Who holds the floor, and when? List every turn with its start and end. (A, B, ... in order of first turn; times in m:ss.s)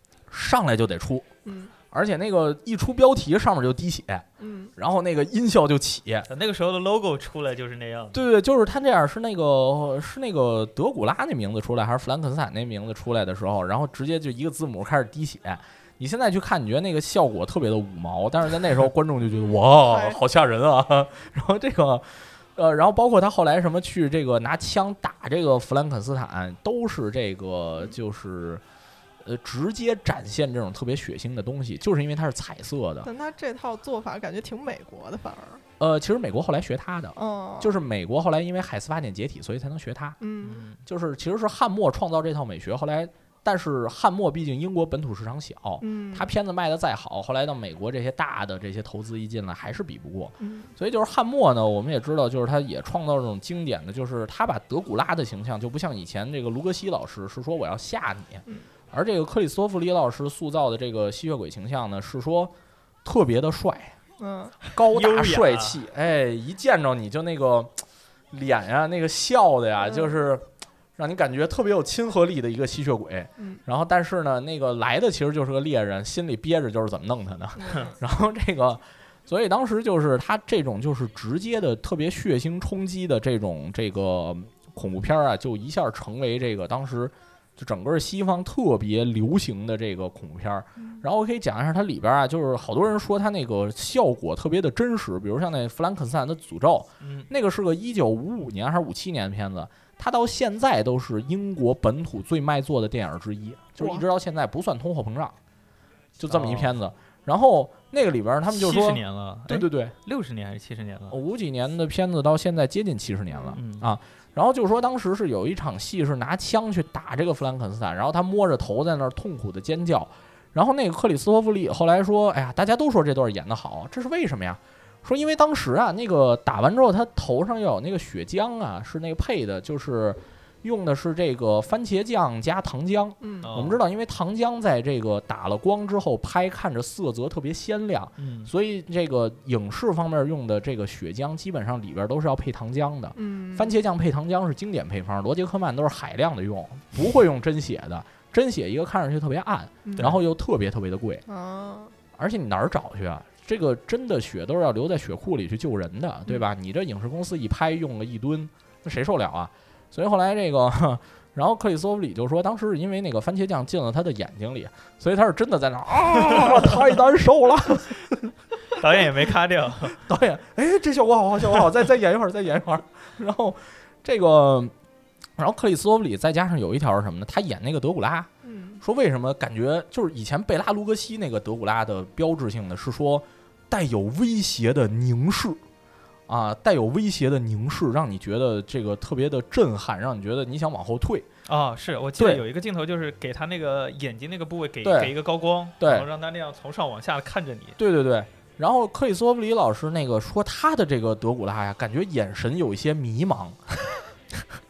0:00.3-0:01.3 A
0:01.4-0:01.7 B
0:01.9-0:06.3 A
0:04.4-0:04.7 B
0:06.3-0:08.2 C
0:08.1-0:28.6 A
0:19.3-0:20.2 B
0:29.2-0:33.1 A
0:33.0-0:35.6 B
0:35.8-0:40.2 A
0:37.2-0:37.8 B
0:40.2-0:40.6 B
0:40.4-0:40.8 C
0:40.8-1:02.5 A
0:45.8-0:46.3 B
0:50.4-0:50.7 B
1:03.0-1:04.0 A
1:04.2-1:04.7 B
1:04.7-1:10.4 A
1:04.9-1:05.8 C
1:09.8-1:10.1 B
1:11.0-1:45.4 A
1:13.4-1:13.6 B
1:17.6-1:18.0 B
1:30.8-1:31.0 B
1:37.0-1:37.3 C
1:43.8-1:44.0 B
1:46.2-1:49.9 A
1:46.3-1:46.7 C
1:48.5-1:51.2 C
1:51.1-2:31.2 A
1:53.3-1:53.6 B
1:53.5-1:53.8 C
2:13.2-2:13.5 B
2:13.4-2:13.8 C
2:18.2-2:18.5 C
2:23.2-2:23.7 B
2:29.8-2:30.1 B
2:31.3-2:31.9 B
2:32.2-2:48.2 A
2:48.7-2:50.0 C
2:50.0-2:54.7 A
2:55.4-2:58.3 A
2:58.4-2:58.8 B
2:58.8-3:05.6 A
3:06.3-3:11.3 A
3:11.5-3:17.8 C
3:12.2-3:12.4 A
3:14.8-3:15.1 A
3:15.8-3:16.1 A
3:17.8-3:24.0 A